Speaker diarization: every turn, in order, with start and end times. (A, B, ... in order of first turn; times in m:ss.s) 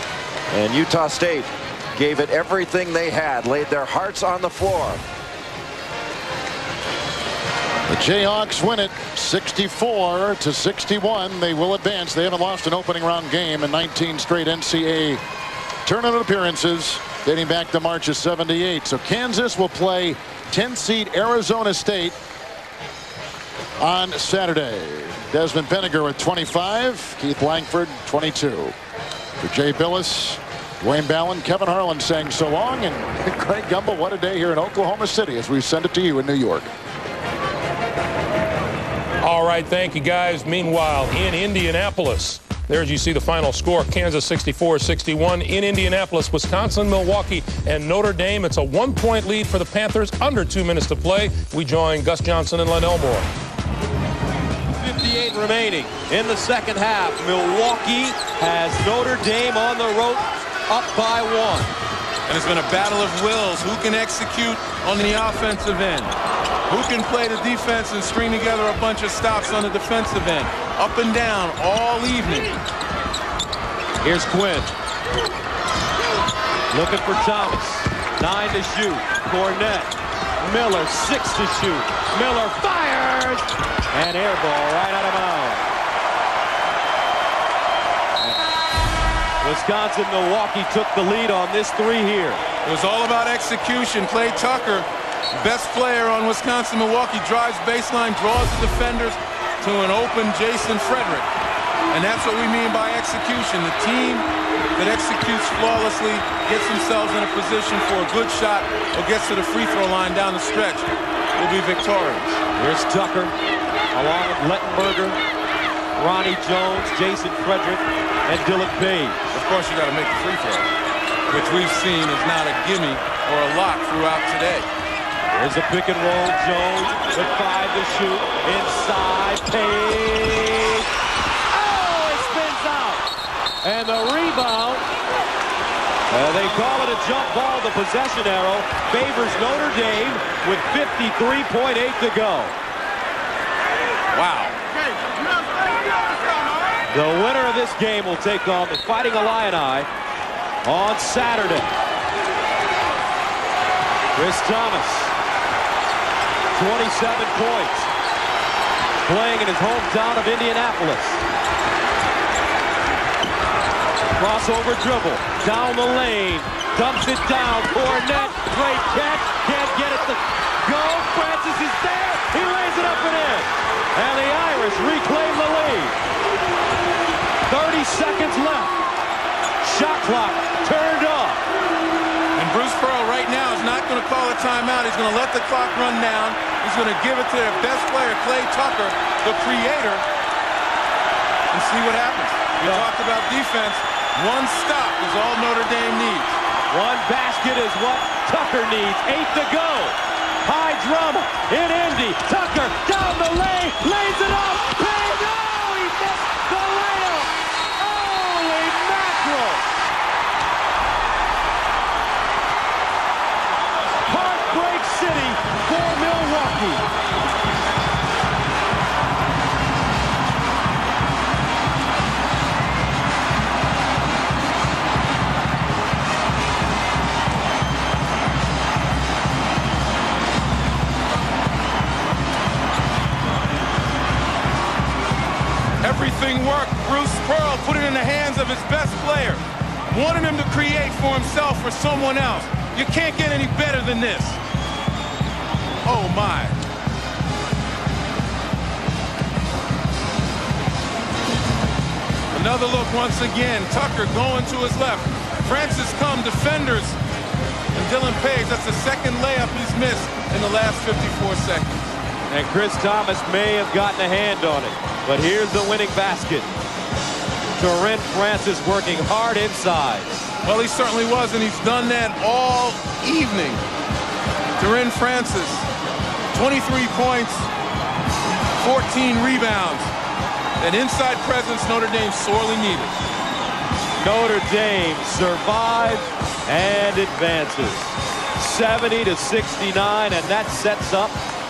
0:00.5-0:05.0 A
0:07.9-0:15.2 B
0:15.8-0:22.2 B
0:23.8-0:28.7 B
0:29.4-0:36.7 B
0:39.2-0:53.3 C
0:54.7-1:01.7 D
1:02.3-1:06.1 E
1:06.7-1:12.6 E
1:14.0-1:14.7 D
1:16.7-1:25.6 D
1:29.4-1:32.4 D
1:32.6-1:41.3 E
1:41.9-1:52.4 E
1:52.6-1:53.3 D
1:53.9-1:55.2 D
1:56.0-1:59.2 D
1:59.3-2:00.7 E
2:01.3-2:04.7 E
2:05.3-2:10.8 D
2:11.5-2:13.0 D
2:13.6-2:14.8 D
2:16.1-2:22.5 D
2:24.1-2:24.6 E
2:26.9-2:29.9 D
2:30.6-2:31.7 D
2:34.1-2:35.1 D
2:36.5-2:37.9 D
2:39.0-2:41.2 D
2:44.2-2:56.0 D
2:57.5-2:58.8 D
2:59.6-3:01.4 D
3:02.4-3:10.0 E
3:11.5-3:16.4 E
3:12.6-3:12.9 D
3:16.7-3:29.6 D
3:34.0-3:36.9 D
3:55.8-4:04.4 E
4:05.8-4:06.6 E
4:12.3-4:17.0 E
4:17.7-4:21.8 E
4:22.3-4:26.5 D
4:27.5-4:30.2 D
4:30.4-4:33.6 E
4:34.6-4:35.7 E
4:36.3-4:37.5 E
4:38.6-4:39.9 E
4:40.6-4:43.0 E
4:44.0-4:51.2 D